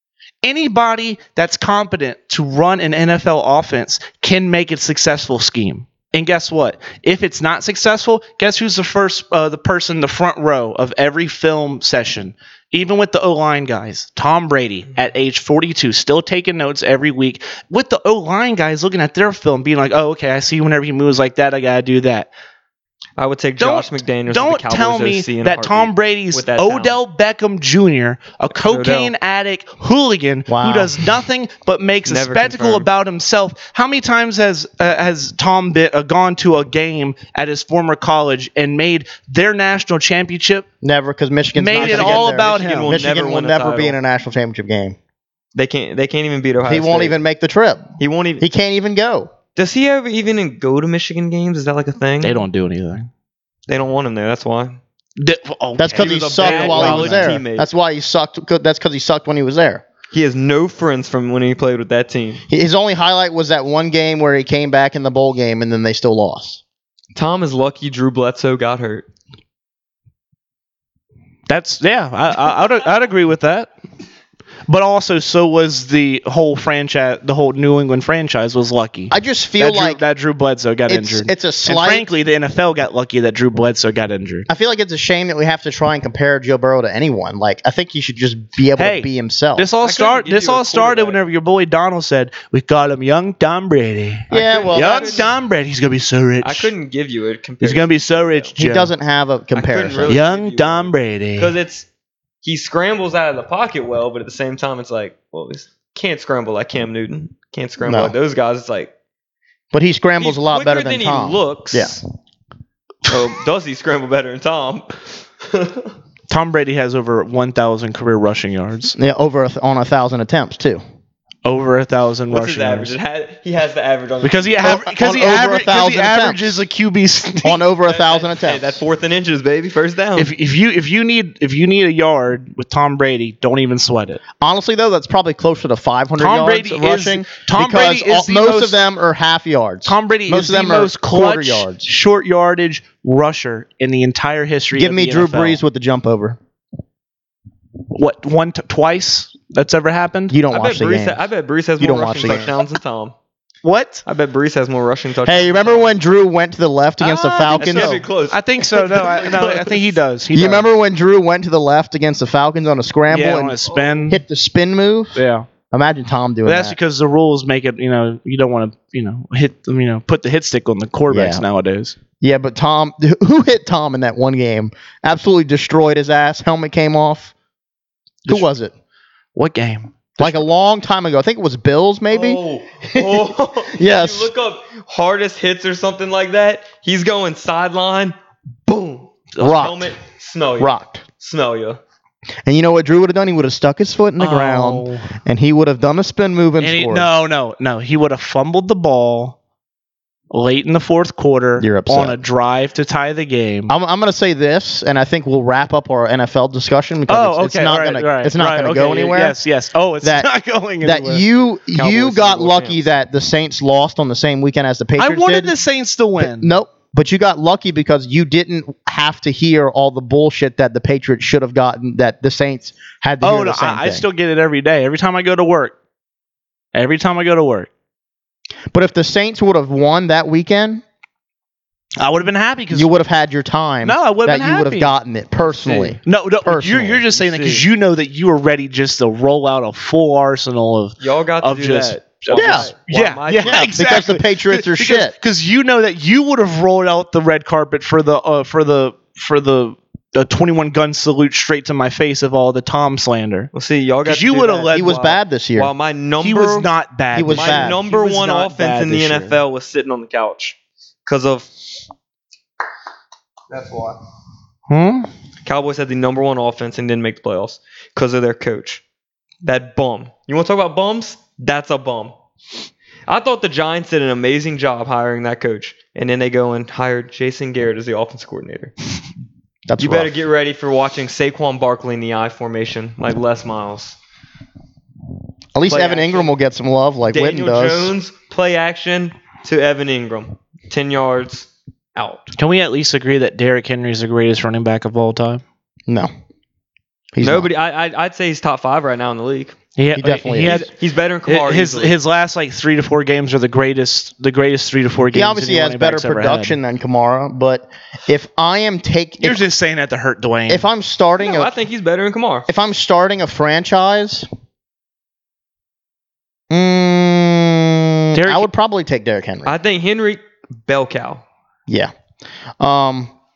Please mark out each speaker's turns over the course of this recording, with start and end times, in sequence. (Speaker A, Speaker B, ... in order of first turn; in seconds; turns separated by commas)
Speaker A: 0.4-22.3, Speaker B: 23.2-27.0, Speaker A: 23.6-40.6, Speaker B: 28.6-29.1, Speaker C: 30.5-31.0, Speaker B: 32.0-32.9, Speaker C: 40.8-45.0, Speaker A: 41.5-43.0, Speaker B: 41.7-44.0, Speaker B: 45.5-47.2, Speaker C: 46.6-49.3, Speaker B: 48.0-48.4, Speaker B: 49.5-52.4, Speaker A: 52.2-53.1, Speaker B: 53.7-54.8, Speaker A: 55.2-57.4, Speaker C: 55.8-59.8, Speaker B: 56.0-57.7, Speaker B: 60.1-62.4, Speaker C: 62.5-66.6, Speaker B: 67.1-69.0, Speaker A: 71.5-73.7, Speaker A: 74.7-84.5, Speaker C: 79.1-80.0, Speaker C: 80.9-82.0, Speaker C: 84.5-89.7, Speaker A: 88.8-96.7, Speaker B: 89.8-91.2, Speaker C: 94.3-95.3, Speaker B: 94.3-95.3, Speaker B: 96.4-98.5, Speaker A: 97.6-98.9, Speaker C: 98.6-100.2, Speaker B: 99.5-101.8, Speaker A: 100.1-101.5, Speaker B: 102.4-108.9, Speaker C: 107.8-108.1, Speaker C: 109.7-112.0, Speaker B: 110.2-112.0, Speaker B: 113.1-115.9, Speaker A: 116.3-118.9, Speaker C: 119.0-120.8, Speaker A: 121.4-123.0, Speaker B: 122.3-124.7, Speaker A: 124.2-127.6, Speaker C: 124.6-126.6, Speaker C: 127.4-128.8, Speaker B: 127.8-130.3, Speaker A: 130.2-134.2, Speaker C: 134.4-141.9, Speaker A: 136.2-138.8, Speaker A: 139.8-145.6, Speaker C: 144.7-146.4, Speaker A: 147.9-150.3, Speaker C: 150.3-151.2, Speaker B: 150.5-153.1, Speaker C: 151.8-152.5, Speaker A: 153.6-154.0, Speaker B: 154.1-155.9, Speaker C: 155.2-158.0, Speaker A: 157.0-160.7, Speaker B: 157.5-159.9, Speaker C: 160.3-166.8, Speaker A: 163.1-164.2, Speaker B: 163.7-164.0, Speaker A: 165.1-165.5, Speaker A: 166.4-171.9, Speaker C: 171.1-171.4, Speaker C: 172.2-177.3, Speaker C: 178.2-178.7, Speaker A: 179.3-180.4, Speaker C: 180.2-184.3, Speaker B: 182.1-188.1, Speaker B: 188.7-191.8, Speaker A: 189.4-189.6, Speaker C: 189.4-189.9, Speaker C: 190.6-191.0, Speaker C: 192.4-197.1, Speaker A: 194.2-195.1, Speaker A: 196.6-199.3, Speaker A: 200.3-203.7, Speaker C: 201.6-202.2, Speaker C: 203.7-209.4, Speaker A: 207.1-211.2, Speaker C: 210.0-210.3, Speaker C: 210.8-215.5, Speaker B: 211.7-212.9, Speaker A: 215.0-216.5, Speaker C: 216.2-224.0, Speaker A: 223.2-225.8, Speaker A: 226.7-227.7, Speaker C: 228.7-230.8, Speaker A: 232.0-232.9, Speaker C: 232.7-237.1, Speaker A: 233.8-234.9, Speaker B: 235.6-236.0, Speaker A: 236.0-253.5, Speaker B: 237.1-237.7, Speaker B: 241.0-243.8, Speaker C: 242.3-242.7, Speaker C: 243.4-245.1, Speaker B: 253.5-256.7, Speaker A: 254.0-254.9, Speaker C: 254.7-255.7, Speaker A: 256.2-259.4, Speaker C: 257.1-257.8, Speaker B: 257.3-261.5, Speaker B: 263.5-264.0, Speaker A: 264.7-265.1, Speaker B: 265.4-268.8, Speaker B: 269.4-272.1, Speaker B: 273.1-278.7, Speaker C: 279.7-280.1, Speaker B: 279.8-284.0, Speaker C: 285.5-287.9, Speaker B: 285.7-286.3, Speaker B: 287.1-292.3, Speaker A: 292.4-295.4, Speaker C: 297.1-297.5, Speaker B: 297.2-299.6, Speaker A: 299.8-300.7, Speaker C: 299.9-300.7, Speaker B: 300.4-302.0, Speaker A: 301.2-306.6, Speaker C: 305.1-309.4, Speaker A: 309.2-310.6, Speaker C: 310.5-311.5, Speaker B: 311.2-312.5, Speaker C: 312.5-314.3, Speaker C: 316.5-319.5, Speaker A: 318.1-318.5, Speaker B: 319.4-321.2, Speaker C: 321.7-321.9, Speaker C: 322.6-323.1